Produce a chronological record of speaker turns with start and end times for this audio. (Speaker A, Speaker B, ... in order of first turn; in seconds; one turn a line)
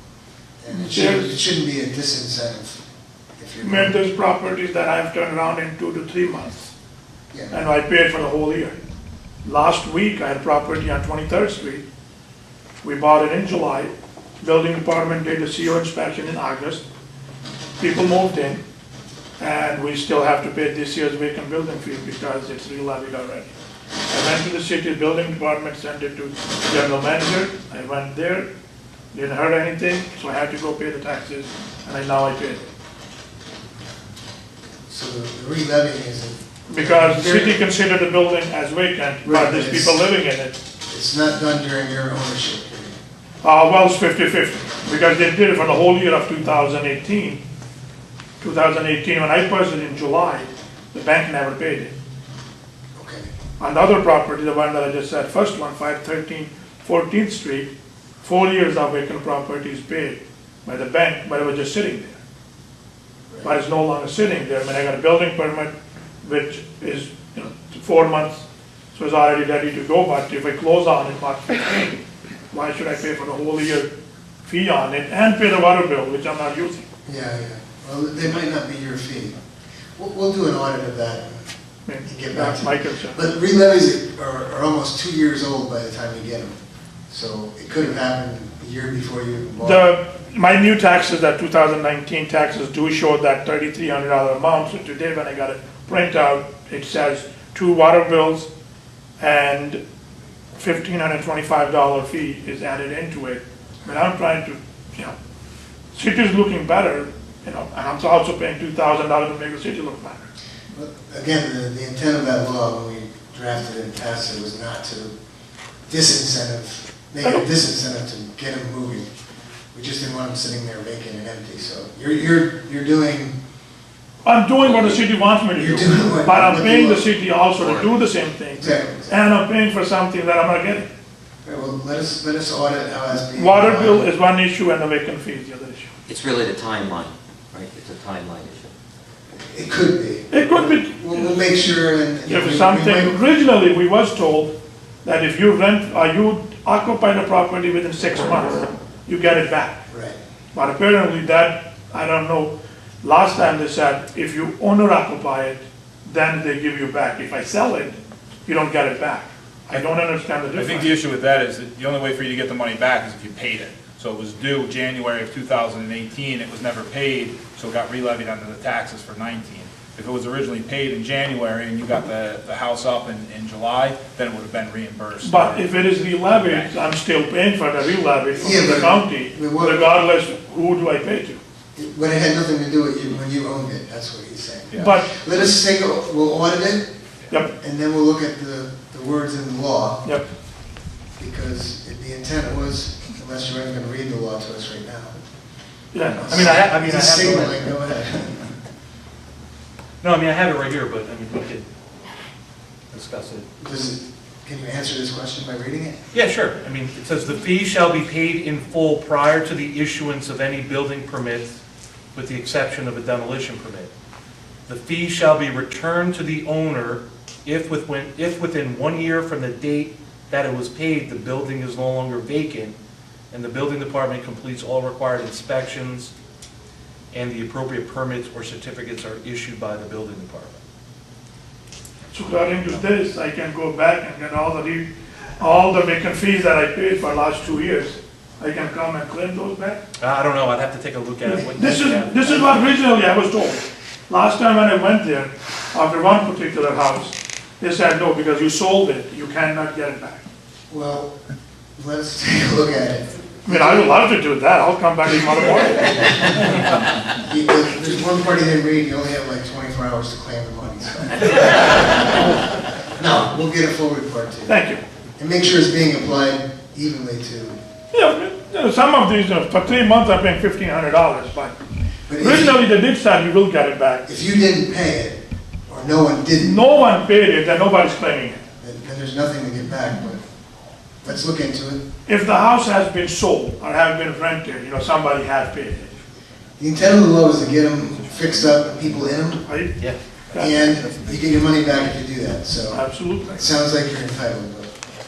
Speaker A: 0.6-2.8
Speaker B: 0.7-1.4
Speaker A: 3.4-4.0
Speaker B: 3.6-6.7
Speaker B: 7.5-8.8
Speaker B: 9.4-11.8
Speaker B: 12.8-16.8
Speaker B: 17.8-18.6
Speaker B: 19.4-23.5
Speaker B: 24.1-28.5
Speaker B: 29.1-32.7
Speaker A: 34.9-37.6
Speaker B: 36.7-40.6
Speaker A: 39.2-40.0
Speaker A: 40.9-43.0
Speaker B: 43.4-47.4
Speaker B: 48.4-51.9
Speaker A: 53.0-53.3
Speaker B: 53.6-57.7
Speaker B: 58.2-62.2
Speaker A: 63.3-63.6
Speaker B: 63.4-65.7
Speaker B: 66.2-72.0
Speaker B: 72.5-73.9
Speaker B: 74.4-76.8
Speaker A: 77.0-79.4
Speaker A: 80.0-81.5
Speaker B: 81.8-83.2
Speaker A: 82.0-89.9
Speaker B: 89.6-98.5
Speaker B: 99.2-99.8
Speaker B: 100.5-105.1
Speaker B: 105.9-110.3
Speaker A: 110.7-115.1
Speaker A: 115.9-119.1
Speaker A: 119.7-123.3
Speaker B: 124.2-130.9
Speaker A: 125.5-127.0
Speaker C: 127.6-127.8
Speaker A: 128.5-129.2
Speaker A: 131.4-134.1
Speaker B: 133.3-135.9
Speaker C: 136.1-138.7
Speaker A: 139.3-143.2
Speaker B: 140.3-141.5
Speaker B: 142.2-144.5
Speaker B: 145.0-149.8
Speaker A: 149.9-150.2
Speaker B: 150.5-160.9
Speaker D: 160.5-176.7
Speaker B: 175.2-181.4
Speaker A: 178.3-179.9
Speaker A: 181.7-186.9
Speaker D: 184.7-185.0
Speaker B: 184.7-185.1
Speaker A: 187.5-190.1
Speaker A: 191.2-195.2
Speaker B: 195.9-196.4
Speaker E: 196.2-197.7
Speaker A: 196.2-198.5
Speaker E: 200.0-201.7
Speaker E: 202.9-203.5
Speaker A: 203.6-206.1
Speaker E: 206.1-211.6
Speaker E: 212.1-213.9
Speaker E: 214.7-222.8
Speaker E: 223.3-226.1
Speaker E: 227.1-230.6
Speaker B: 232.1-239.8
Speaker E: 240.0-242.6
Speaker B: 241.4-250.2
Speaker A: 250.7-251.2
Speaker A: 251.8-254.0
Speaker B: 253.4-256.3
Speaker A: 256.2-256.5
Speaker A: 257.1-264.6
Speaker C: 261.4-261.6
Speaker B: 264.5-264.8
Speaker A: 265.2-267.6
Speaker B: 267.9-271.6
Speaker A: 272.1-272.6
Speaker B: 272.2-274.1
Speaker A: 274.1-276.6
Speaker B: 276.4-278.4
Speaker A: 278.6-280.2
Speaker A: 281.0-281.8
Speaker B: 282.1-285.9
Speaker A: 286.6-289.4
Speaker B: 289.4-289.8
Speaker B: 290.3-290.6
Speaker A: 290.4-294.7
Speaker B: 292.7-293.4